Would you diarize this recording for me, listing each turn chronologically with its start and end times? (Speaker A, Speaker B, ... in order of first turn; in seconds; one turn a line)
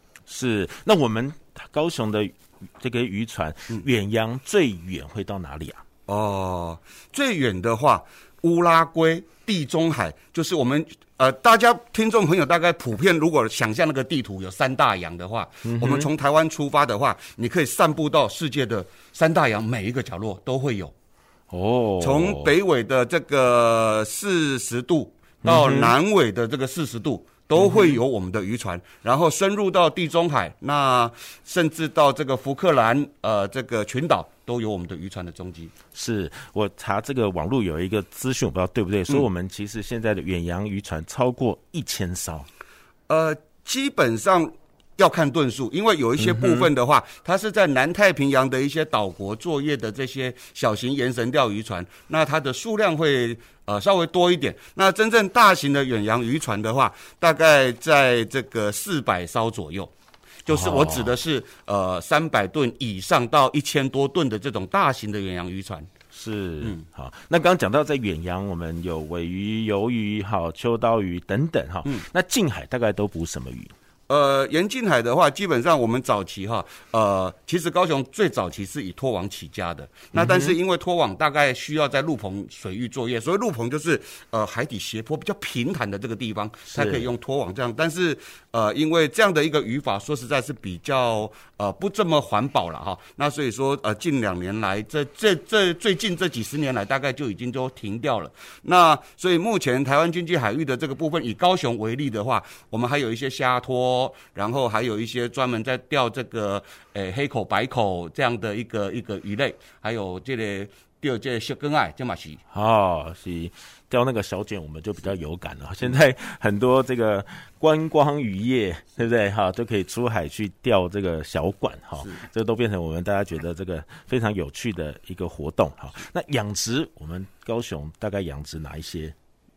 Speaker A: 0.3-5.8
Speaker B: 6.1-20.9
Speaker A: 15.7-16.1
Speaker A: 21.5-22.5
Speaker B: 22.0-35.7
Speaker A: 25.4-25.9
Speaker A: 27.6-28.0
Speaker A: 36.0-42.5
Speaker B: 43.1-59.9
Speaker A: 46.2-46.7
Speaker B: 60.5-65.9
Speaker A: 60.5-61.2
Speaker A: 66.1-73.7
Speaker B: 74.1-112.4
Speaker A: 80.1-80.6
Speaker A: 86.7-87.1
Speaker A: 112.5-129.2